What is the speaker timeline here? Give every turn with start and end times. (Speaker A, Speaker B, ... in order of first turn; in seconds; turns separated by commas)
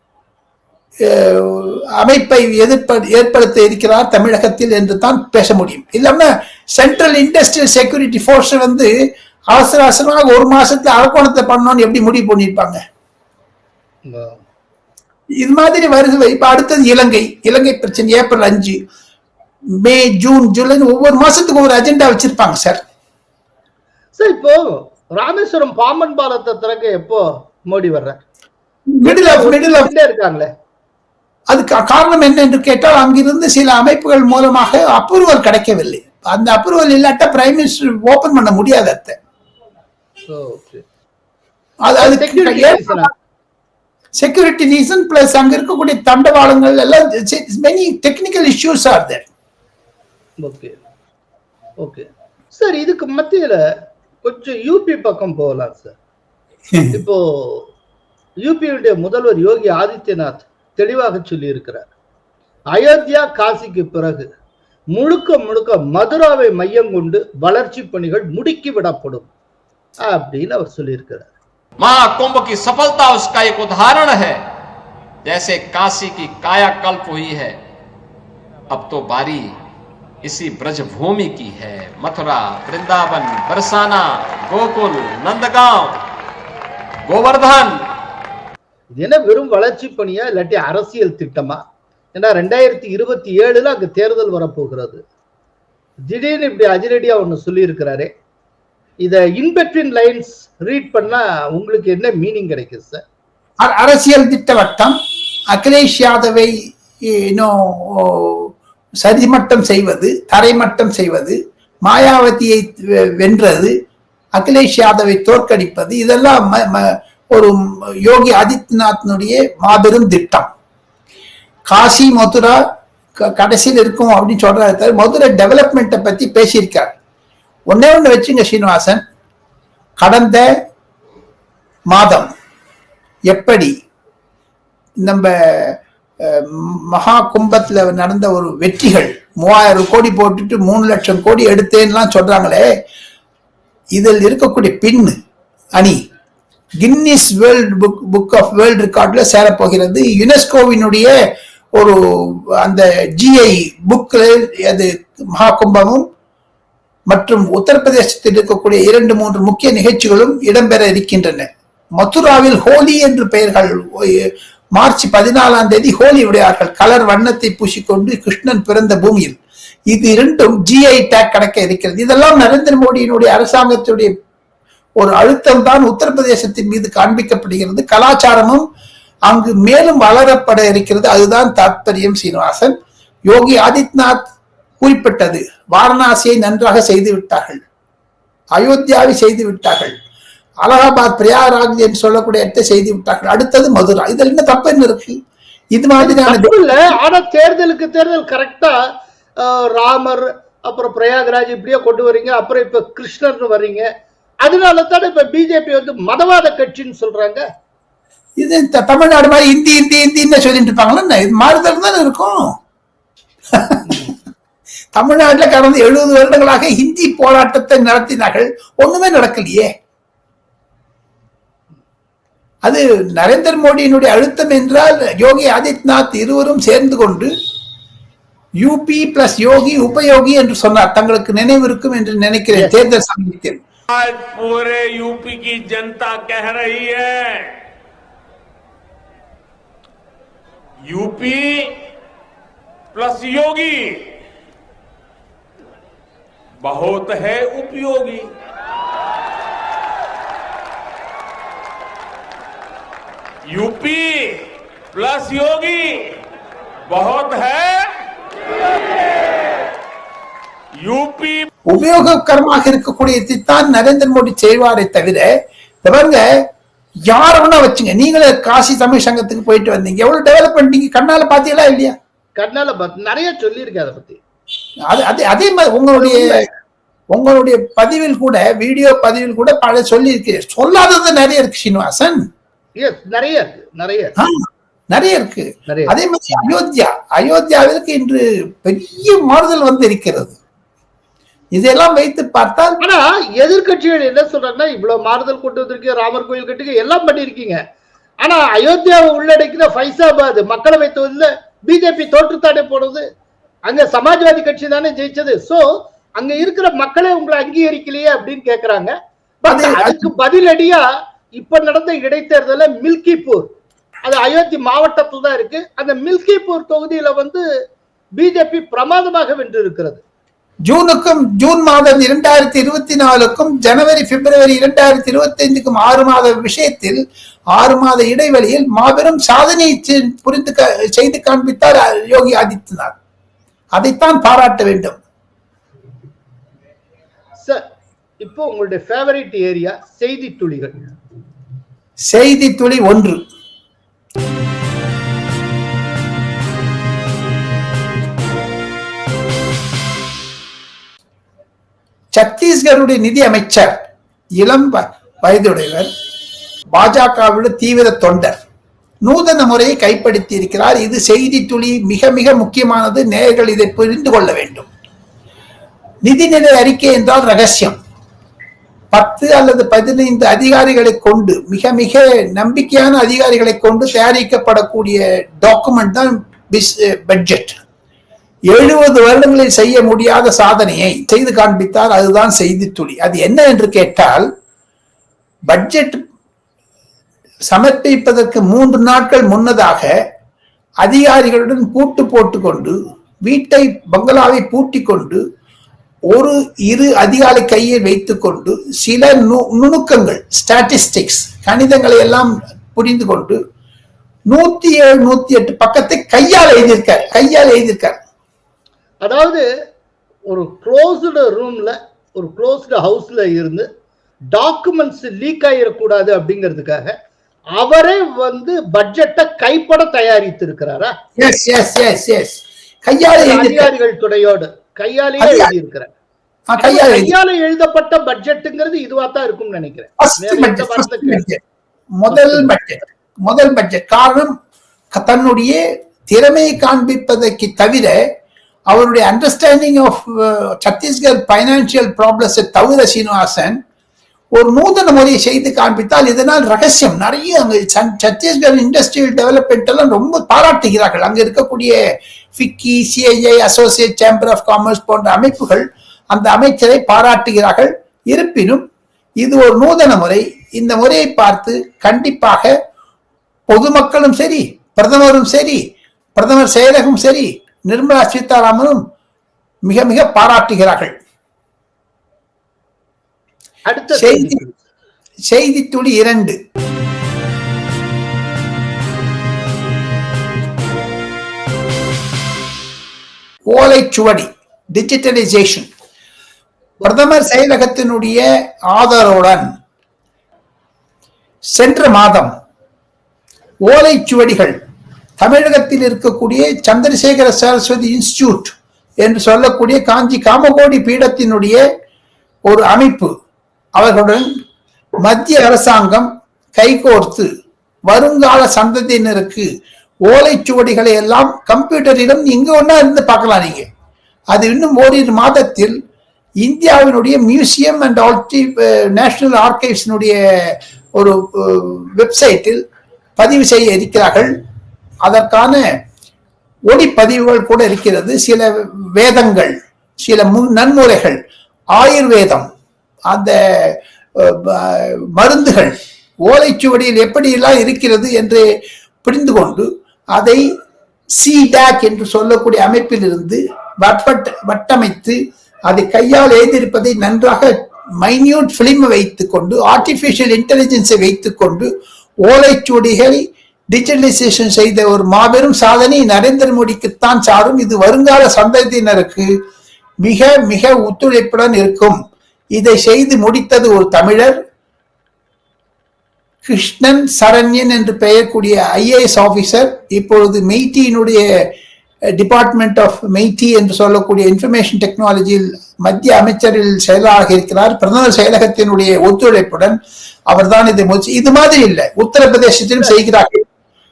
Speaker A: 1.0-8.9, Speaker A: 9.5-12.8, Speaker B: 14.1-14.4, Speaker A: 15.4-18.8, Speaker A: 19.8-22.8, Speaker B: 24.2-28.2, Speaker A: 28.9-29.9, Speaker B: 29.0-30.5, Speaker A: 31.5-39.2, Speaker B: 40.3-40.8, Speaker A: 41.9-43.1, Speaker B: 42.0-43.1, Speaker A: 44.2-49.2, Speaker B: 50.4-50.7, Speaker B: 51.8-53.6, Speaker B: 54.2-56.0, Speaker B: 56.9-57.7, Speaker B: 58.4-61.9, Speaker B: 62.7-64.3, Speaker B: 64.9-69.3, Speaker B: 70.0-71.3, Speaker C: 71.8-74.4, Speaker C: 75.2-77.6, Speaker C: 78.7-79.6, Speaker C: 80.2-86.0, Speaker C: 87.0-87.8, Speaker B: 89.0-91.6, Speaker B: 92.1-95.0, Speaker B: 96.1-98.1, Speaker B: 99.0-103.0, Speaker A: 103.6-105.0, Speaker A: 105.5-106.5, Speaker A: 107.0-108.5, Speaker A: 109.0-113.7, Speaker A: 114.3-120.5, Speaker A: 121.7-122.6, Speaker A: 123.2-127.0, Speaker A: 127.7-129.0, Speaker A: 130.0-130.4, Speaker A: 131.9-132.3, Speaker A: 133.3-133.7, Speaker A: 135.0-142.6, Speaker A: 143.9-145.1, Speaker A: 146.8-151.1, Speaker A: 151.8-156.0, Speaker A: 157.1-169.4, Speaker A: 169.9-174.1, Speaker A: 175.0-178.7, Speaker A: 179.3-182.7, Speaker A: 183.3-184.2, Speaker A: 184.8-187.6, Speaker A: 188.6-189.9, Speaker A: 190.6-195.2, Speaker A: 195.7-196.9, Speaker B: 196.0-198.7, Speaker B: 199.4-203.8, Speaker B: 204.4-207.4, Speaker A: 208.4-212.5, Speaker A: 213.5-214.1, Speaker A: 214.9-219.7, Speaker A: 222.6-227.3, Speaker A: 228.6-233.6, Speaker D: 233.9-237.5, Speaker D: 240.8-241.8, Speaker D: 242.9-244.1, Speaker D: 246.6-248.3, Speaker D: 253.5-256.1, Speaker D: 256.9-257.9, Speaker D: 260.8-261.5, Speaker A: 261.7-265.3, Speaker A: 265.8-266.2, Speaker A: 267.1-271.9, Speaker B: 272.4-274.2, Speaker A: 274.9-276.4, Speaker B: 275.9-276.4, Speaker A: 277.1-282.2, Speaker B: 282.8-284.1, Speaker A: 284.2-290.4, Speaker B: 285.7-285.9, Speaker A: 291.5-292.8, Speaker B: 292.8-297.6, Speaker B: 298.2-303.0, Speaker B: 303.7-313.5, Speaker A: 309.5-310.1, Speaker B: 314.0-317.4, Speaker B: 318.2-320.0, Speaker A: 320.6-327.0, Speaker A: 327.6-332.9, Speaker A: 333.7-335.0, Speaker B: 338.2-340.8, Speaker A: 342.1-343.2, Speaker A: 352.1-353.8, Speaker A: 354.4-355.9, Speaker A: 356.7-358.4, Speaker A: 359.0-364.7, Speaker A: 366.0-367.8, Speaker A: 368.9-377.6, Speaker A: 378.5-384.3, Speaker A: 385.5-386.0, Speaker A: 387.5-389.9, Speaker A: 390.8-395.2, Speaker A: 396.1-403.4, Speaker A: 404.3-408.0, Speaker B: 409.0-409.4, Speaker B: 410.3-413.7, Speaker B: 414.3-416.9, Speaker B: 417.6-420.9, Speaker A: 421.2-423.7, Speaker B: 423.1-425.9, Speaker A: 425.2-425.5, Speaker A: 426.5-427.1, Speaker B: 426.6-431.2, Speaker A: 430.0-431.4, Speaker A: 431.9-434.3, Speaker B: 432.1-432.5, Speaker A: 434.9-438.0, Speaker A: 438.7-443.6, Speaker A: 444.3-451.8, Speaker A: 452.3-458.6, Speaker A: 459.2-462.5, Speaker A: 463.5-465.6, Speaker A: 466.1-468.8, Speaker A: 469.6-470.9, Speaker B: 473.7-474.5, Speaker A: 473.9-474.4, Speaker A: 475.3-476.4, Speaker A: 483.5-485.7, Speaker A: 486.8-489.5, Speaker A: 491.5-492.3, Speaker A: 493.6-494.6, Speaker A: 495.2-501.6, Speaker A: 502.4-503.1, Speaker A: 503.8-504.3, Speaker A: 505.0-507.3, Speaker A: 507.9-509.5, Speaker A: 510.1-513.6, Speaker A: 514.3-515.7, Speaker A: 516.4-522.6, Speaker A: 523.2-524.3, Speaker A: 525.0-525.6, Speaker A: 526.7-531.2, Speaker A: 531.7-532.5, Speaker A: 533.1-535.7, Speaker A: 536.3-538.4, Speaker A: 539.0-540.4, Speaker A: 541.2-551.7, Speaker A: 552.2-559.3, Speaker A: 560.0-562.0, Speaker A: 562.5-564.4, Speaker A: 566.4-571.2, Speaker A: 572.2-579.8, Speaker A: 580.3-583.4